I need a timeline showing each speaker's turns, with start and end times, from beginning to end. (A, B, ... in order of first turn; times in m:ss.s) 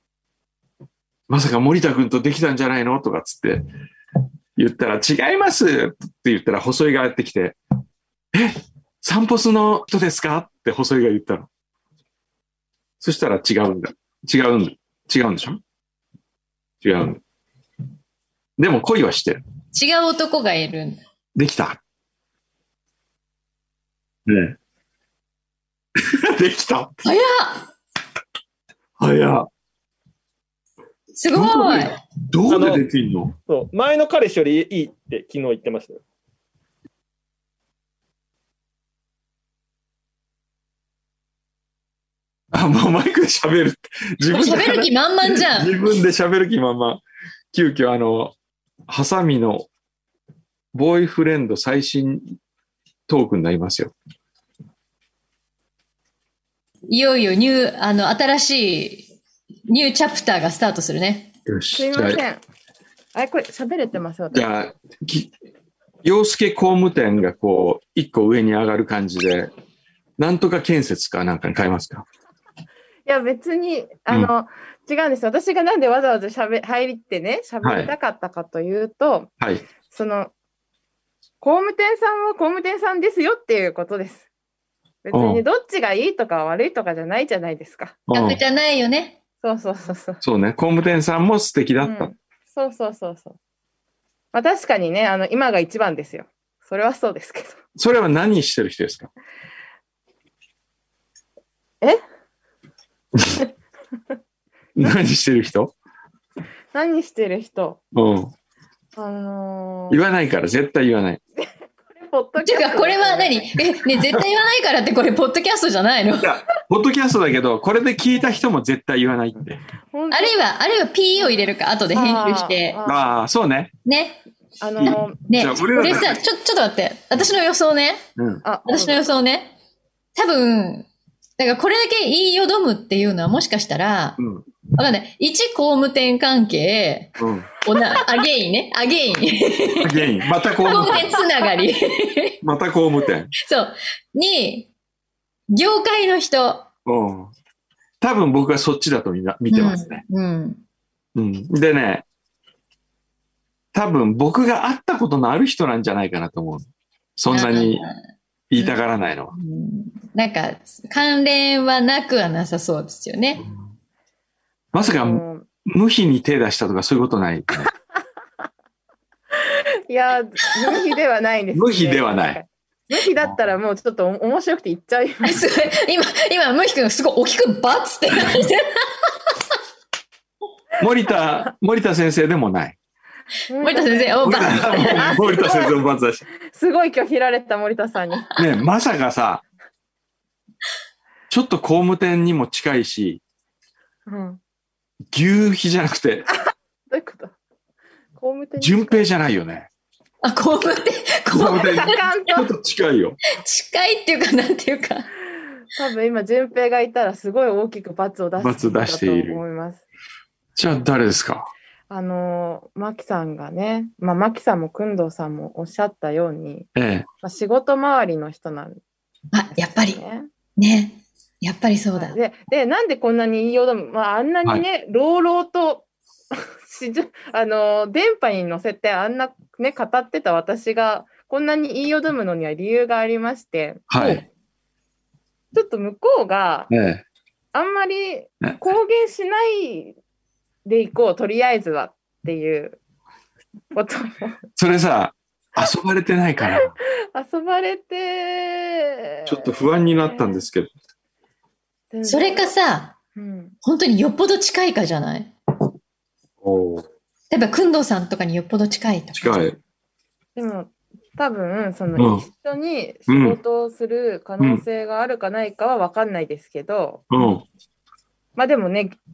0:01.3-0:03.6 A
0:04.6-0:07.6 A
0:08.3-0:11.5 A
0:13.0-0:15.6 A
0:16.8-0:17.2 A
0:18.6-0:19.4 A
0:19.7-0:21.0 B
0:21.3-0:21.8 A
0:24.3-0:24.6 A
0:26.1-0:27.0 A
0:27.0-0:27.7 B
0:29.0-0:29.5 A
0:31.1-0:32.0 B
0:31.3-0:33.3 A
0:32.5-0:32.8 C
0:33.5-0:36.0 C
0:42.5-0:48.3 A
0:44.2-0:45.8 B
0:48.9-0:49.7 A
0:50.7-0:52.4 A
0:53.1-0:53.9 A
0:56.9-0:59.1 B
0:59.7-1:01.3 B
1:01.4-1:02.2 A
1:01.7-1:02.4 D
1:03.1-1:04.4 D
1:04.3-1:05.3 A
1:06.0-1:09.5 A
1:10.2-1:12.0 A
1:13.0-1:19.3 D
1:17.6-1:17.9 A
1:19.4-1:19.6 A
1:19.9-1:20.3 D
1:21.4-1:24.2 D
1:25.0-1:28.0 D
1:25.1-1:25.4 A
1:28.1-1:28.4 A
1:28.1-1:29.2 B
1:29.4-1:30.2 D
1:30.2-1:32.1 A
1:31.8-1:33.4 D
1:34.3-1:37.6 D
1:37.8-1:39.1 A
1:43.1-1:43.4 A
1:44.8-1:45.7 A
1:46.7-1:47.8 D
1:47.9-1:48.3 A
1:49.0-1:50.0 D
1:49.9-1:51.2 A
1:51.8-1:53.4 D
1:52.4-1:56.3 B
1:56.2-1:59.6 A
1:59.9-2:00.4 D
2:00.1-2:02.8 B
2:01.2-2:03.1 D
2:02.8-2:03.7 A
2:03.8-2:04.2 B
2:04.6-2:05.2 D
2:04.8-2:06.2 A
2:04.8-2:08.0 B
2:08.2-2:08.4 A
2:08.4-2:09.0 D
2:08.6-2:09.5 B
2:10.2-2:14.2 B
2:14.2-2:14.4 A
2:14.7-2:17.1 B
2:17.2-2:17.5 A
2:17.6-2:20.0 B
2:19.8-2:21.2 A
2:20.6-2:22.3 B
2:22.4-2:23.3 A
2:23.4-2:24.7 B
2:25.5-2:26.7 B
2:26.8-2:27.3 A
2:28.0-2:30.0 A
2:29.5-2:30.6 B
2:31.2-2:32.0 A
2:33.7-2:37.9 A
2:37.3-2:38.8 B
2:38.5-2:39.3 A
2:39.3-2:43.4 B
2:44.7-2:47.7 A
2:44.7-2:45.4 D
2:49.9-2:55.4 D
2:51.5-2:52.4 A
2:55.2-2:58.8 B
3:00.8-3:02.8 A
3:03.5-3:05.7 D
3:03.6-3:05.3 B
3:04.2-3:06.2 A
3:06.5-3:08.3 D
3:08.4-3:09.4 A
3:11.3-3:13.2 A
3:14.0-3:14.4 D
3:15.1-3:16.3 A
3:16.9-3:17.3 D
3:18.2-3:19.0 D
3:18.6-3:19.7 A
3:20.2-3:22.0 B
3:21.3-3:23.2 A
3:21.4-3:22.4 D
3:23.3-3:25.1 B
3:25.8-3:29.8 D
3:28.4-3:29.4 A
3:30.6-3:31.5 A
3:31.9-3:36.7 D
3:36.7-3:37.0 A
3:37.2-3:38.8 D
3:39.3-3:40.0 B
3:39.5-3:40.3 D
3:40.6-3:42.2 B
3:42.0-3:53.8 D
3:53.9-3:54.2 A
3:53.9-3:54.2 B
3:55.5-3:56.7 D
3:56.7-3:57.0 A
3:57.5-3:59.9 D
4:00.6-4:02.8 D
4:03.7-4:04.4 D
4:04.6-4:06.7 A
4:06.4-4:09.5 D
4:09.2-4:10.7 A
4:11.9-4:12.5 D
4:12.0-4:12.9 B
4:13.1-4:13.5 D
4:13.6-4:15.3 B
4:16.4-4:16.8 A
4:17.3-4:19.5 B
4:19.1-4:19.6 A
4:20.4-4:27.0 D
4:22.0-4:22.2 A
4:23.1-4:23.4 A
4:27.1-4:27.4 A
4:28.4-4:29.0 D